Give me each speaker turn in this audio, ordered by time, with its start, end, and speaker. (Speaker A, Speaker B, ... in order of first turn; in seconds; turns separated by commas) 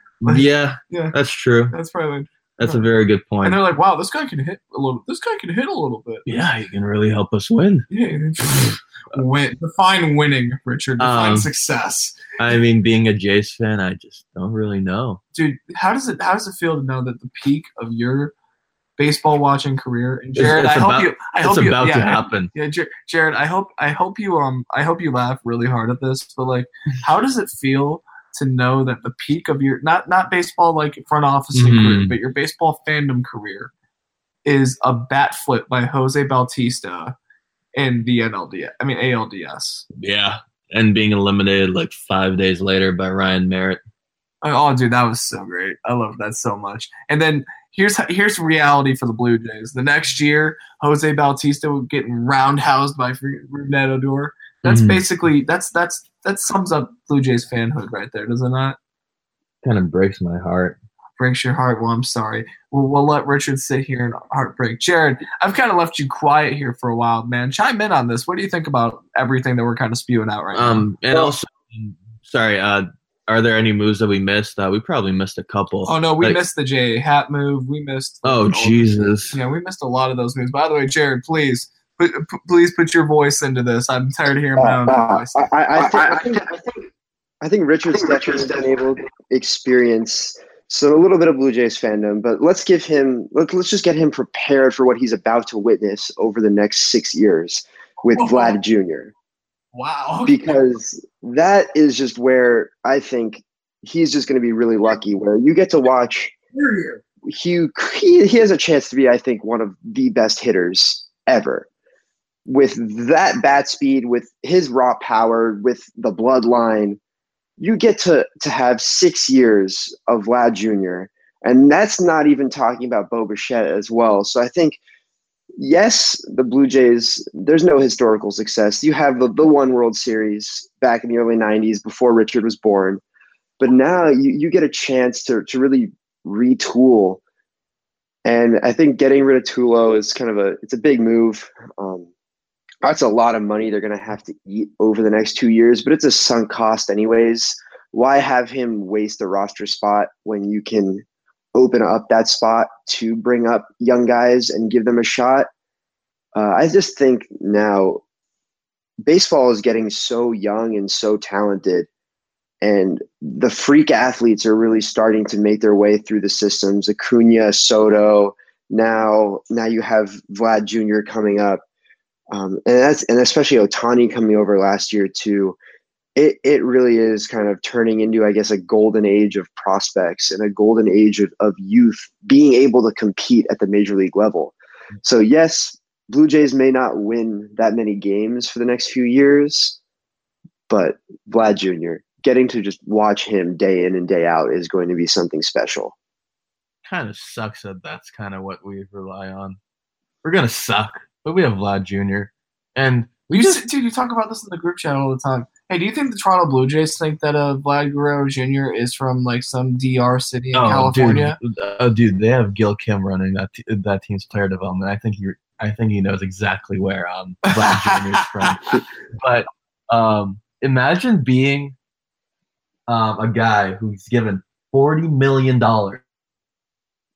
Speaker A: 0.2-1.8, Speaker B: 0.2-1.1, Speaker B: 1.7-2.8, Speaker A: 2.6-3.6, Speaker B: 3.4-6.4, Speaker A: 6.3-7.9, Speaker B: 7.9-12.3, Speaker A: 11.0-11.5, Speaker A: 12.4-15.2, Speaker B: 15.3-18.3, Speaker B: 19.0-33.7, Speaker A: 20.3-22.5, Speaker A: 31.5-32.1, Speaker B: 34.4-37.1, Speaker B: 37.8-39.8, Speaker A: 39.9-43.8, Speaker B: 44.4-58.8, Speaker A: 54.6-55.0, Speaker A: 59.6-60.8, Speaker B: 61.2-71.3, Speaker A: 70.5-76.4, Speaker B: 75.8-86.4, Speaker A: 78.2-79.3, Speaker C: 84.6-86.9, Speaker C: 87.4-99.1, Speaker B: 98.1-98.6, Speaker B: 99.7-100.6, Speaker C: 100.2-106.3, Speaker B: 106.5-107.0, Speaker C: 107.2-111.7, Speaker C: 112.5-117.0, Speaker C: 117.6-124.8, Speaker C: 125.6-133.0, Speaker C: 133.6-137.2, Speaker C: 138.2-142.1, Speaker C: 142.8-155.5, Speaker C: 156.3-158.0, Speaker C: 159.0-161.9, Speaker C: 162.6-171.6, Speaker C: 172.3-175.6, Speaker C: 176.2-189.8, Speaker C: 190.7-195.9, Speaker A: 196.8-199.6, Speaker A: 200.2-203.6, Speaker B: 203.3-211.4, Speaker A: 210.5-221.8, Speaker B: 217.5-218.7, Speaker A: 222.9-226.0